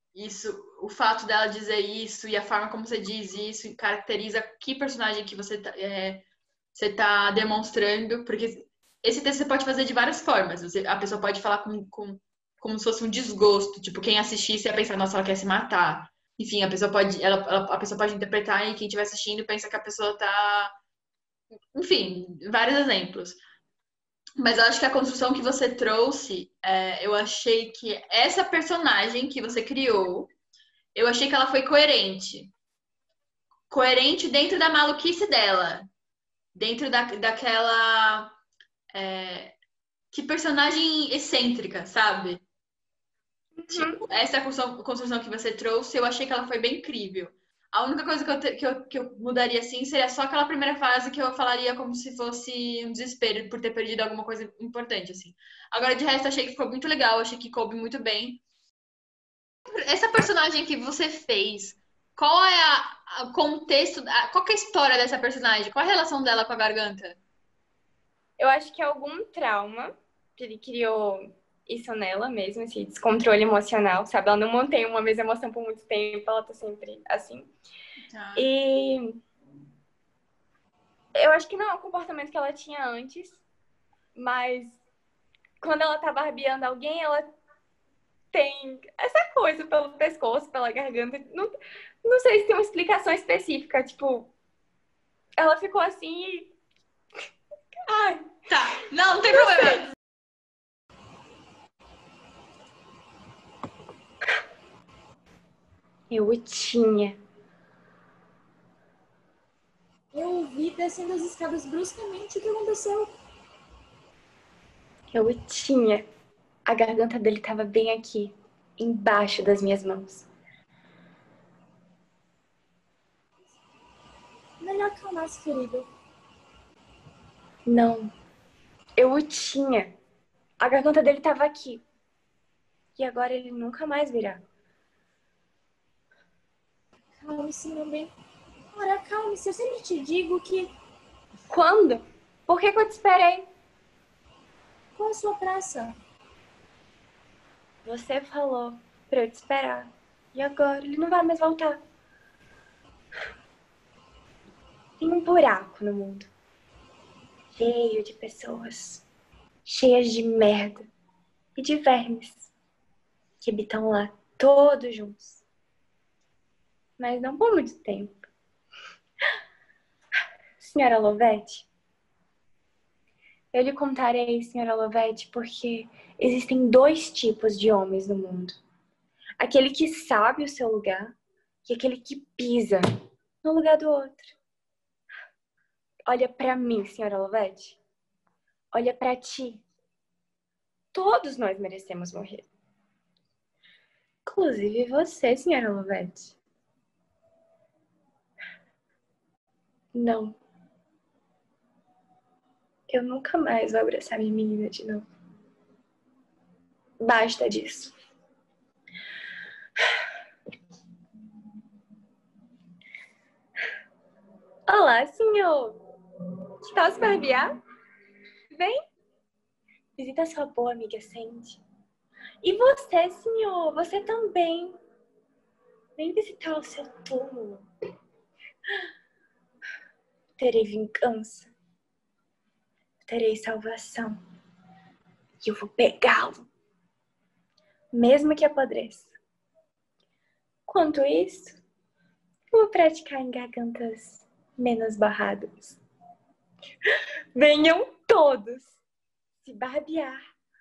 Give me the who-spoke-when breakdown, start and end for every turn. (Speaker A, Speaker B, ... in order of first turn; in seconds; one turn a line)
Speaker A: 0.1-20.7
Speaker A: 21.7-23.4
Speaker A: 24.4-30.3
Speaker A: 30.9-32.5
Speaker A: 33.7-35.9
Speaker A: 36.5-38.4
Speaker A: 38.9-39.5
Speaker A: 40.1-42.4
Speaker B: 43.6-44.0
Speaker A: 43.7-58.4
Speaker A: 59.7-67.2
Speaker B: 68.4-77.5
Speaker A: 78.1-78.5
Speaker B: 78.3-79.2
Speaker B: 81.1-83.4
Speaker B: 84.1-84.8
Speaker B: 85.6-87.3
Speaker B: 88.3-94.3
Speaker B: 95.4-96.5
Speaker B: 97.8-98.3
Speaker A: 98.5-99.9
Speaker B: 99.2-99.8
Speaker B: 106.1-107.2
Speaker C: 110.1-113.1
Speaker B: 115.1-116.0
Speaker B: 116.7-120.3
Speaker C: 124.6-125.9
Speaker B: 127.7-128.1
Speaker B: 129.0-129.9
Speaker B: 130.6-131.8
Speaker B: 132.9-134.4
Speaker C: 137.2-138.1
Speaker C: 138.7-140.7
Speaker B: 141.5-143.4
Speaker C: 144.9-145.9
Speaker B: 147.8-151.8
Speaker B: 155.0-156.3
Speaker B: 157.5-159.0
Speaker B: 159.6-160.8
Speaker B: 161.6-162.5
Speaker B: 163.4-165.4
Speaker B: 167.0-168.3
Speaker B: 170.6-171.7
Speaker B: 173.5-178.6
Speaker B: 179.4-181.1
Speaker B: 181.7-182.8
Speaker B: 183.4-184.3
Speaker B: 186.1-187.8
Speaker B: 188.7-189.6
Speaker B: 190.9-192.5
Speaker B: 194.2-196.3
Speaker B: 199.9-200.4
Speaker B: 202.9-205.0
Speaker B: 207.0-207.9
Speaker B: 214.7-215.8
Speaker B: 216.6-217.5
Speaker B: 218.5-218.8
Speaker B: 219.9-221.6
Speaker B: 222.4-224.8
Speaker B: 225.9-227.7
Speaker B: 230.4-231.5
Speaker B: 233.0-234.2
Speaker B: 235.4-236.4
Speaker B: 237.9-239.1
Speaker B: 240.7-241.6
Speaker B: 242.5-245.8
Speaker B: 247.3-248.8
Speaker B: 249.4-250.2